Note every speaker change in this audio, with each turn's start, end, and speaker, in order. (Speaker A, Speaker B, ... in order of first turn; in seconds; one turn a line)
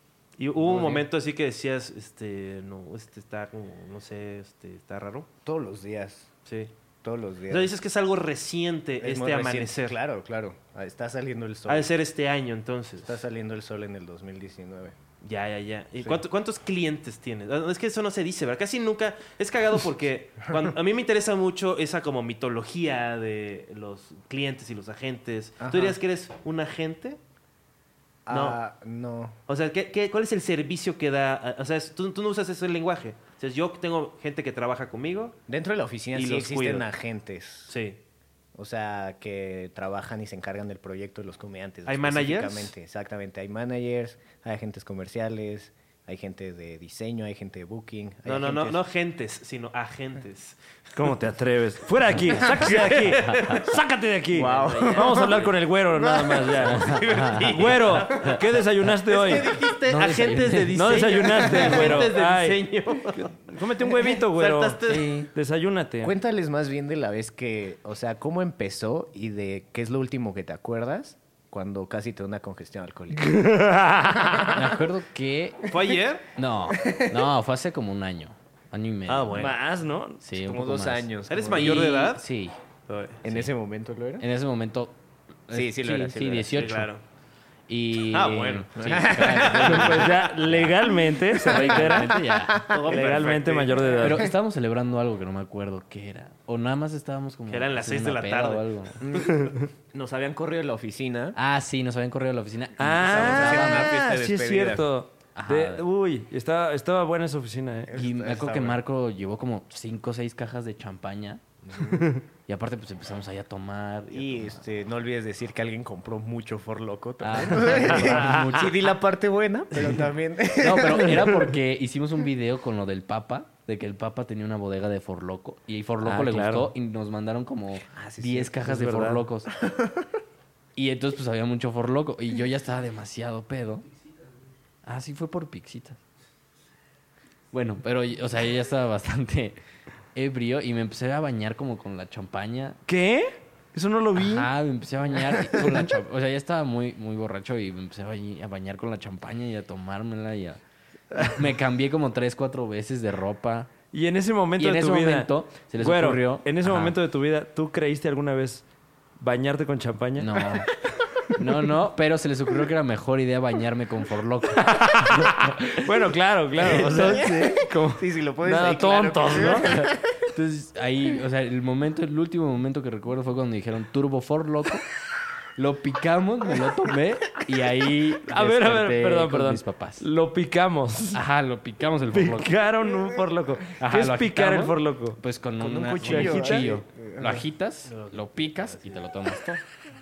Speaker A: 0.4-5.3
Speaker B: 0.6-1.1
Speaker B: 5.5-6.3
Speaker A: 6.5-6.7
Speaker B: 7.0-7.7
Speaker A: 7.5-9.9
Speaker B: 9.0-11.9
Speaker A: 11.7-13.2
Speaker B: 13.0-14.9
Speaker A: 15.2-27.2
Speaker B: 25.6-26.0
Speaker B: 28.2-29.4
Speaker A: 28.3-28.6
Speaker A: 29.5-35.4
Speaker B: 35.5-37.7
Speaker A: 36.1-36.9
Speaker A: 37.7-38.0
Speaker B: 38.5-48.8
Speaker A: 41.9-42.7
Speaker A: 48.2-50.6
Speaker C: 50.9-59.5
Speaker A: 52.3-53.7
Speaker B: 54.3-56.5
Speaker A: 54.5-55.0
Speaker D: 56.6-58.4
Speaker A: 56.7-58.4
Speaker A: 59.0-65.1
Speaker D: 59.9-61.1
Speaker C: 60.7-62.6
Speaker C: 63.1-64.8
Speaker D: 64.9-65.3
Speaker C: 65.3-66.1
Speaker B: 66.0-73.5
Speaker C: 73.2-74.6
Speaker B: 74.2-74.6
Speaker D: 74.5-75.6
Speaker A: 75.7-76.2
Speaker D: 76.3-79.5
Speaker B: 76.7-77.2
Speaker C: 79.1-80.2
Speaker A: 79.2-79.5
Speaker D: 80.2-82.5
Speaker B: 80.4-82.1
Speaker A: 81.3-82.2
Speaker A: 82.9-83.2
Speaker B: 83.2-84.2
Speaker D: 83.2-83.5
Speaker D: 84.2-85.0
Speaker D: 85.5-86.9
Speaker B: 85.5-86.8
Speaker A: 86.5-87.0
Speaker D: 87.7-90.7
Speaker A: 88.1-89.9
Speaker B: 88.8-90.0
Speaker C: 89.5-92.2
Speaker D: 91.3-92.6
Speaker B: 91.4-94.3
Speaker A: 92.7-94.0
Speaker C: 92.9-94.3
Speaker D: 94.0-99.0
Speaker A: 97.5-99.2
Speaker B: 99.0-101.4
Speaker D: 101.3-103.9
Speaker C: 102.8-107.9
Speaker B: 102.9-104.9
Speaker D: 105.3-105.8
Speaker B: 107.9-108.8
Speaker D: 107.9-111.4
Speaker B: 111.7-112.1
Speaker D: 112.5-114.6
Speaker B: 114.1-121.3
Speaker D: 117.2-118.7
Speaker C: 118.1-118.5
Speaker D: 120.5-129.5
Speaker C: 126.0-126.7
Speaker B: 127.9-128.6
Speaker C: 128.6-129.2
Speaker B: 129.6-130.0
Speaker D: 130.8-133.9
Speaker D: 134.8-136.0
Speaker D: 137.5-139.6
Speaker D: 140.1-142.8
Speaker C: 142.9-144.5
Speaker D: 144.2-150.6
Speaker D: 151.1-153.7
Speaker C: 153.9-158.6
Speaker D: 154.6-156.9
Speaker C: 159.2-160.4
Speaker D: 160.2-160.7
Speaker D: 161.3-165.9
Speaker C: 164.5-169.9
Speaker B: 166.6-170.0
Speaker D: 166.6-167.3
Speaker D: 169.7-174.8
Speaker D: 175.6-180.1
Speaker C: 178.2-181.2
Speaker D: 181.1-182.5
Speaker C: 182.1-185.2
Speaker D: 183.8-189.6
Speaker B: 185.6-187.4
Speaker C: 185.9-186.8
Speaker A: 187.9-189.0